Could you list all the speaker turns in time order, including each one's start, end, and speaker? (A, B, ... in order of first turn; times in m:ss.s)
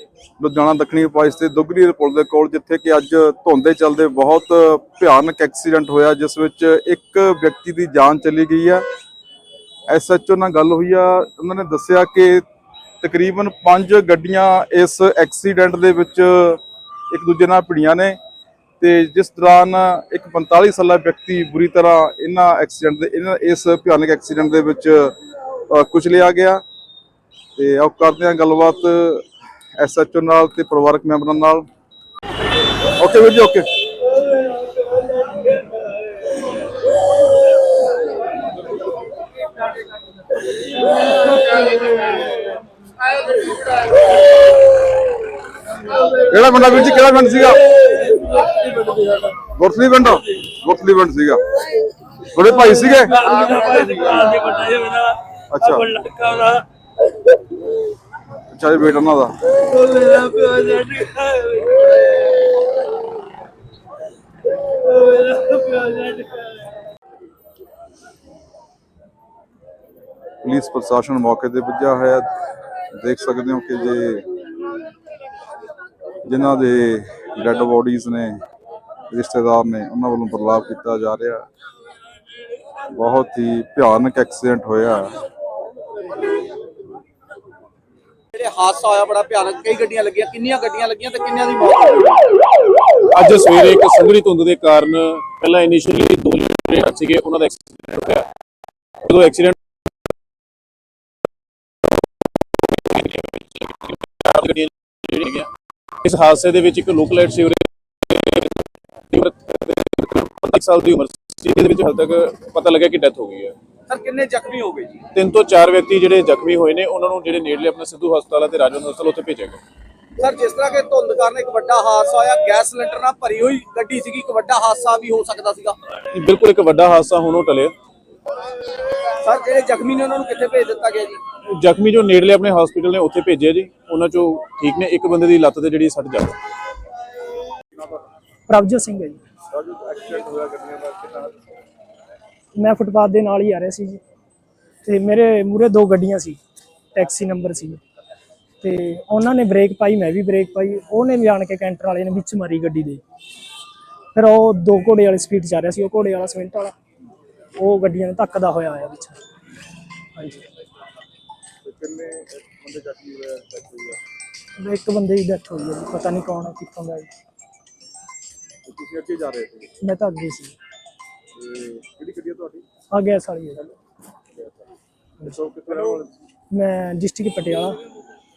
0:00.4-0:08.8 A
0:09.9-0:12.4 A
0:13.0-0:18.2 A
0:18.8-0:25.1 A
0:25.7-0:26.6 A
0:27.6-0:29.3 A
0:29.8-0:31.6 A
0:33.0-0:33.7 A
0:46.0-0:48.0 A
0:49.3-0:51.5 A
0:52.2-0:53.5 A
0:55.5-0:56.2 A
0:58.5-0:59.4 A
1:10.4-1:12.3 A
1:12.9-1:14.3 A
1:16.2-1:18.4 A
1:19.1-1:21.4 A
1:22.9-1:25.2 A
1:28.3-1:32.3 B
1:33.1-1:38.3 C
1:39.0-1:39.6 C
1:42.7-1:53.6 C
1:53.9-1:55.0 B
1:55.1-1:59.6 C
2:00.2-2:05.8 B
2:06.1-2:07.7 C
2:09.2-2:11.2 B
2:11.4-2:16.4 C
2:18.5-2:19.2 D
2:19.5-2:21.3 A
2:22.6-2:24.0 D
2:24.8-2:26.4 D
2:26.9-2:27.8 D
2:28.6-2:33.0 D
2:34.1-2:36.8 D
2:37.6-2:39.2 D
2:40.2-2:40.4 D
2:41.6-2:44.0 A
2:44.6-2:47.1 D
2:48.7-2:49.6 A
2:49.8-2:50.5 D
2:51.4-2:52.6 A
2:52.9-2:53.7 D
2:55.3-2:56.1 A
2:56.5-2:57.8 D